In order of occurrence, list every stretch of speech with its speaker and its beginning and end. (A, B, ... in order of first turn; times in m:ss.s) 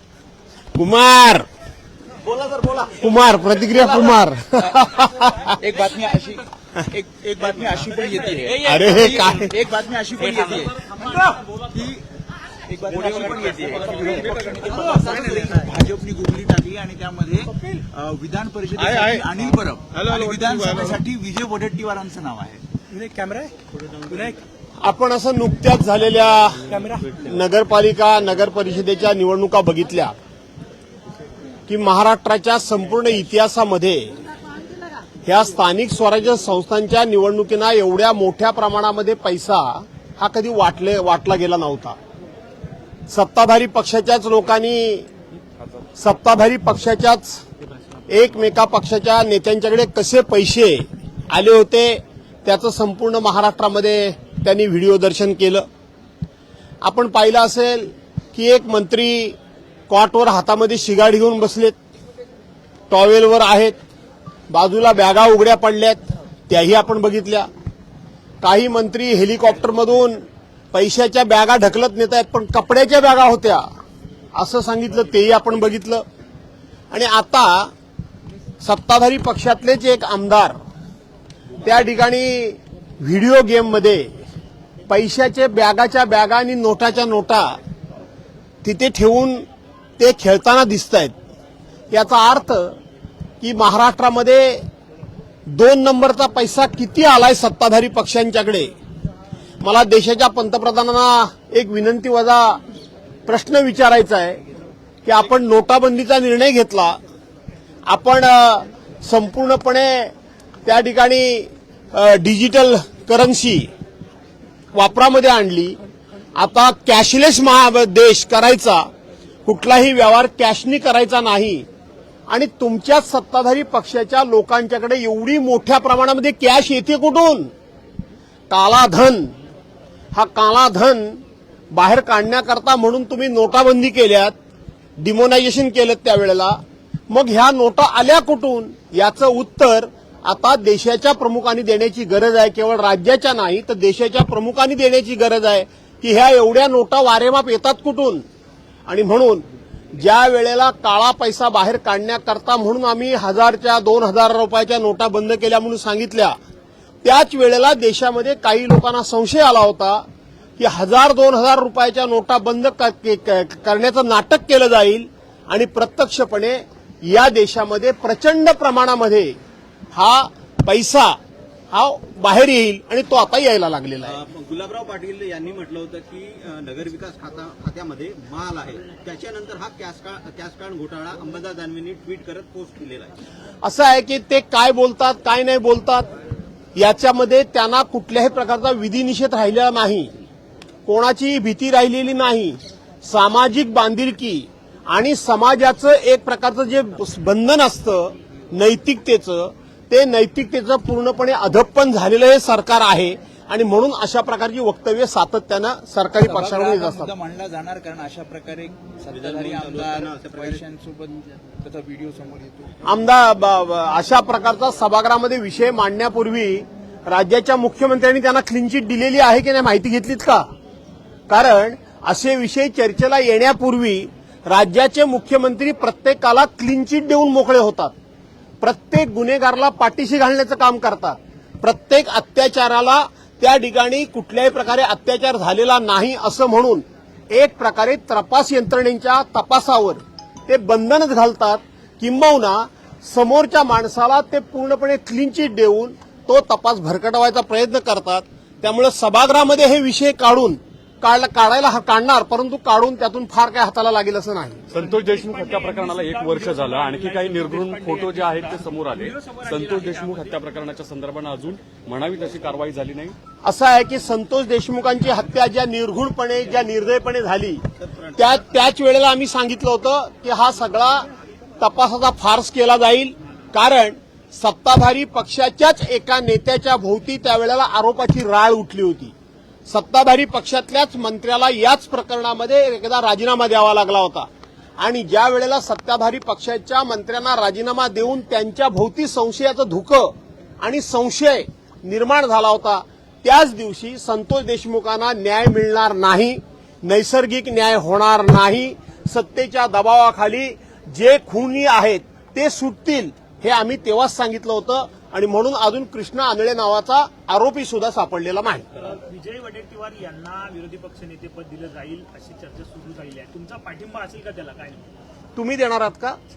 0:00.7-0:01.4 A
0:02.2-0:04.2 B
0:03.0-0:05.6 A
0:05.5-0:12.0 C
0:07.4-0:08.6 B
0:08.6-0:09.5 A
0:12.7-0:23.5 C
0:12.9-0:15.5 B
0:23.8-0:24.3 B
0:24.8-0:30.1 A
0:26.7-0:27.1 C
0:31.7-0:34.1 A
0:35.2-0:42.0 A
0:43.1-0:45.1 A
0:46.0-0:47.4 A
0:48.1-0:55.6 A
0:56.8-0:59.4 A
0:59.9-1:01.8 A
1:02.9-1:03.8 A
1:04.5-1:07.5 A
1:08.4-1:13.6 A
1:14.3-1:16.0 A
1:16.9-1:17.7 A
1:18.6-1:20.6 A
1:21.6-1:24.1 A
1:24.9-1:27.6 A
1:28.6-1:29.4 A
1:30.0-1:31.1 A
1:31.9-1:32.8 A
1:33.4-1:34.6 A
1:35.5-1:38.7 A
1:39.6-1:42.6 A
1:43.2-1:44.4 A
1:45.0-1:47.0 A
1:47.9-1:50.1 A
1:50.6-1:53.7 A
1:54.7-1:55.8 A
1:56.3-1:58.8 A
1:59.4-2:01.6 A
2:02.3-2:07.5 A
2:08.5-2:09.3 A
2:10.1-2:14.3 A
2:15.0-2:16.6 A
2:17.1-2:28.2 A
2:28.9-2:36.4 A
2:37.0-2:40.0 A
2:40.6-2:49.4 A
2:49.9-2:51.2 A
2:51.7-2:54.2 A
2:54.0-3:03.1 B
3:03.6-3:06.1 A
3:06.7-3:10.1 A
3:10.8-3:27.1 A
3:26.2-3:32.7 C
3:29.1-3:30.6 B
3:32.8-3:40.5 A
3:41.3-3:47.9 A
3:48.6-4:14.6 A
4:14.7-4:23.1 D
4:14.7-4:20.4 E
4:23.4-4:27.6 A
4:27.8-4:28.3 B
4:28.2-4:31.0 A
4:31.6-4:39.1 A
4:39.7-4:44.3 A
4:44.8-5:08.7 A
5:08.8-5:14.9 E
5:15.4-5:16.2 A